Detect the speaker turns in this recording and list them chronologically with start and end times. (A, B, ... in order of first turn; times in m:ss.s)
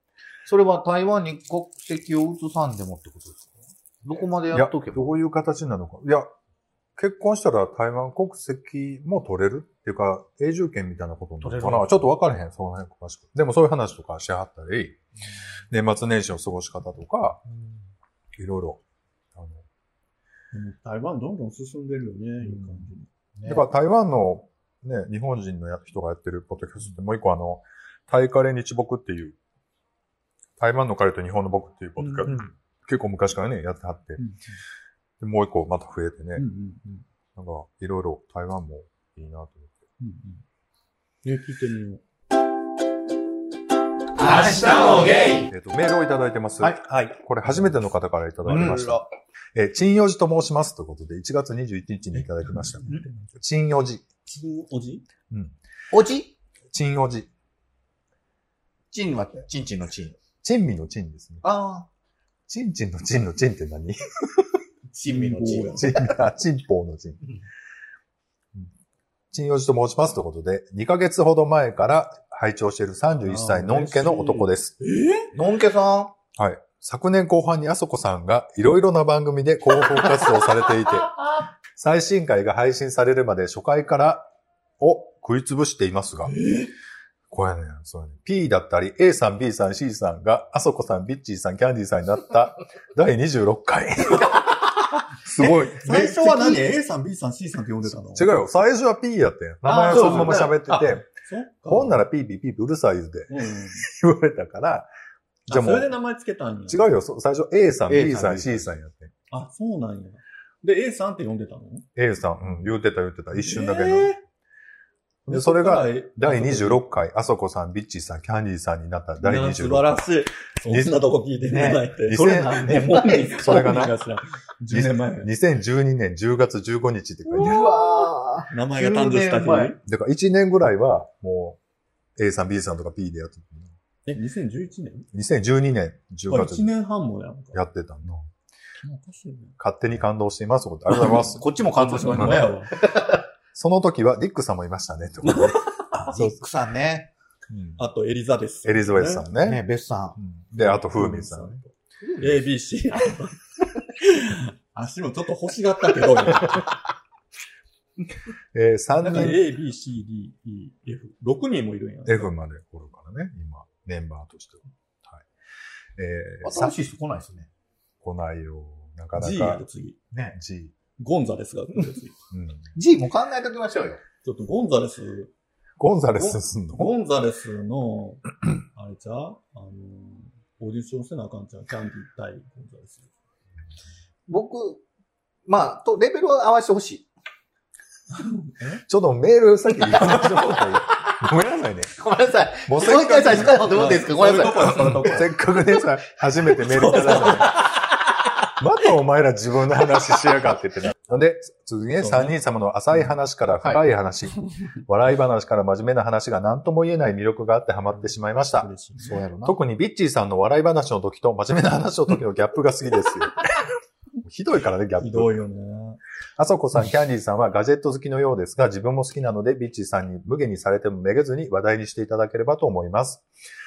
0:00.4-0:05.2 A
0:04.5-0:06.3 B
0:07.0-0:15.0 B
0:11.4-0:12.0 A
0:15.7-0:17.4 B
0:17.5-0:17.9 A
0:18.4-0:18.8 B
0:19.3-0:19.6 B
0:20.5-0:23.1 C
0:22.4-0:22.9 B
0:23.4-0:23.7 A
0:23.4-0:29.4 B
0:30.6-0:34.2 B
0:32.0-0:32.4 C
0:34.2-0:34.6 C
0:35.2-0:36.5 B
0:36.3-0:37.0 C
0:37.3-0:39.8 B
0:40.0-0:40.4 C
0:41.2-0:42.0 C
0:44.4-0:44.9 C
0:45.2-0:49.0 B
0:46.8-0:47.7 C
0:48.4-0:49.0 C
0:49.5-0:54.0 B
0:52.1-0:53.3 C
0:54.2-0:55.0 C
0:55.3-0:55.6 B
0:55.9-0:56.3 A
0:56.7-0:57.3 B
0:58.9-1:00.2 A
1:00.4-1:01.4 B
1:01.4-1:01.9 A
1:02.5-1:04.6 B
1:05.0-1:06.1 C
1:05.0-1:06.1 A
1:05.8-1:07.3 B
1:09.3-1:14.7 B
1:13.2-1:15.3 C
1:15.3-1:16.1 A
1:16.4-1:21.2 B
1:21.7-1:26.3 B
1:26.3-1:26.7 C
1:27.3-1:36.6 B
1:35.4-1:38.4 C
1:38.0-1:41.1 B
1:39.6-1:42.0 C
1:39.7-1:40.5 A
1:41.6-1:44.9 B
1:43.3-1:43.8 C
1:45.5-1:46.8 C
1:45.5-1:45.9 B
1:46.7-1:49.1 B
1:47.9-1:48.6 A
1:49.3-1:51.8 C
1:52.0-1:54.1 B
1:53.3-1:54.2 C
1:55.2-2:00.0 B
1:55.3-1:56.8 C
1:59.2-2:05.3 C
2:00.6-2:01.0 B
2:01.4-2:03.6 A
2:02.0-2:04.0 B
2:04.7-2:07.7 B
2:07.3-2:09.8 C
2:07.3-2:09.8 A
2:09.8-2:11.6 B
2:12.2-2:13.7 B
2:14.0-2:15.1 C
2:15.1-2:16.7 B
2:16.3-2:17.6 C
2:17.5-2:18.3 B
2:18.8-2:19.6 C
2:19.6-2:21.4 B
2:20.9-2:22.8 C
2:21.0-2:23.2 A
2:22.1-2:22.5 B
2:23.5-2:26.4 B
2:25.2-2:25.7 C
2:25.9-2:27.1 A
2:27.5-2:27.8 B
2:27.8-2:29.3 C
2:28.6-2:29.6 B
2:29.4-2:30.2 A
2:30.2-2:31.6 B
2:30.6-2:36.8 C
2:32.0-2:32.3 A
2:38.5-2:39.5 B
2:39.0-2:42.3 C
2:42.0-2:45.2 B
2:46.0-2:46.8 B
2:46.4-2:47.5 A
2:48.0-2:49.6 B
2:49.2-2:50.0 C
2:50.1-2:50.4 A
2:50.3-2:50.7 B
2:51.0-2:52.2 C
2:52.3-2:52.7 B
2:52.7-2:54.0 A
2:54.2-2:55.3 C
2:55.8-2:56.9 B
2:56.2-3:03.1 C
3:04.3-3:04.8 A
3:05.5-3:07.1 A
3:08.2-3:08.8 C
3:08.8-3:11.9 B
3:12.0-3:15.0 A
3:12.7-3:13.6 B
3:13.2-3:15.4 C
3:14.6-3:17.6 B
3:16.6-3:17.8 C
3:18.6-3:28.7 B
3:22.0-3:22.4 C
3:28.4-3:29.2 C
3:29.0-3:29.6 A
3:29.4-3:33.4 B
3:34.2-3:35.4 B
3:35.0-3:36.0 C
3:36.4-3:43.2 B